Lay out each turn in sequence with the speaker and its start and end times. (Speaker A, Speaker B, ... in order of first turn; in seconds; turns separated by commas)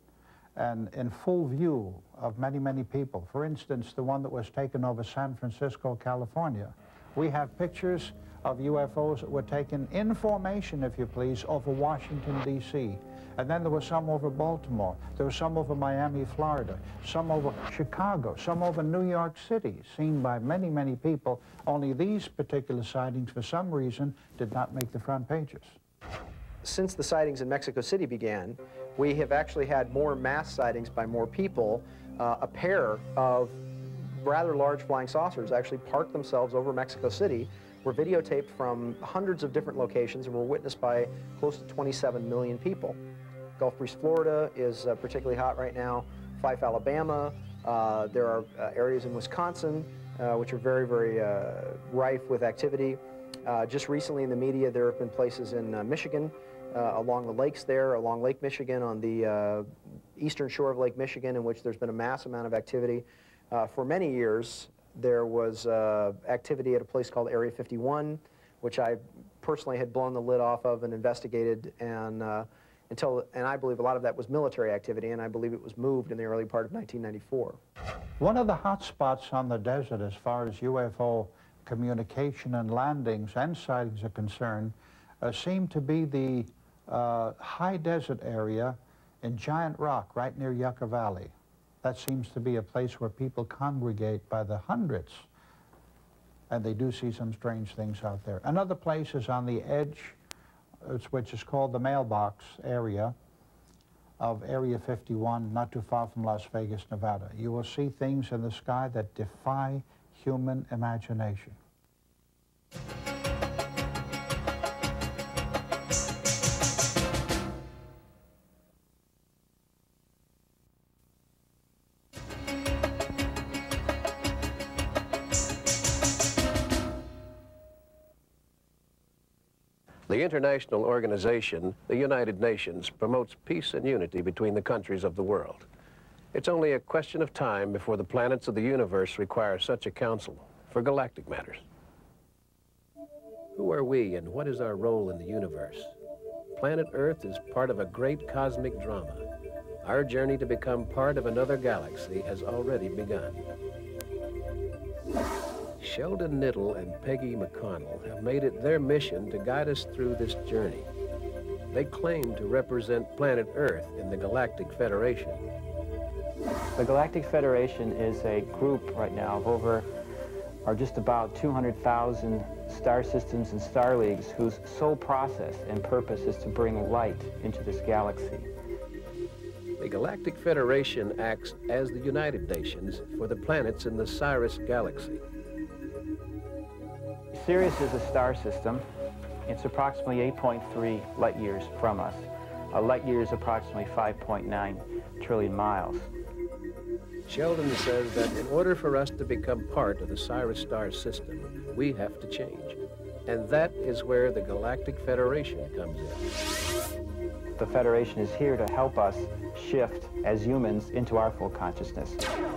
Speaker A: 0.6-25.8, Speaker B: 26.6-43.0, Speaker B: 43.6-77.6, Speaker A: 78.2-95.3, Speaker A: 96.5-100.2, Speaker A: 100.8-103.1, Speaker A: 104.2-111.6, Speaker C: 130.1-135.7, Speaker C: 136.3-141.7, Speaker C: 143.5-145.9, Speaker C: 146.5-149.2, Speaker C: 149.8-153.4, Speaker C: 155.8-160.9, Speaker C: 161.7-165.4, Speaker D: 166.8-169.9, Speaker D: 170.6-178.5, Speaker C: 179.8-185.2, Speaker D: 187.3-188.8, Speaker D: 189.5-196.1, Speaker C: 197.2-206.3, Speaker D: 207.6-212.2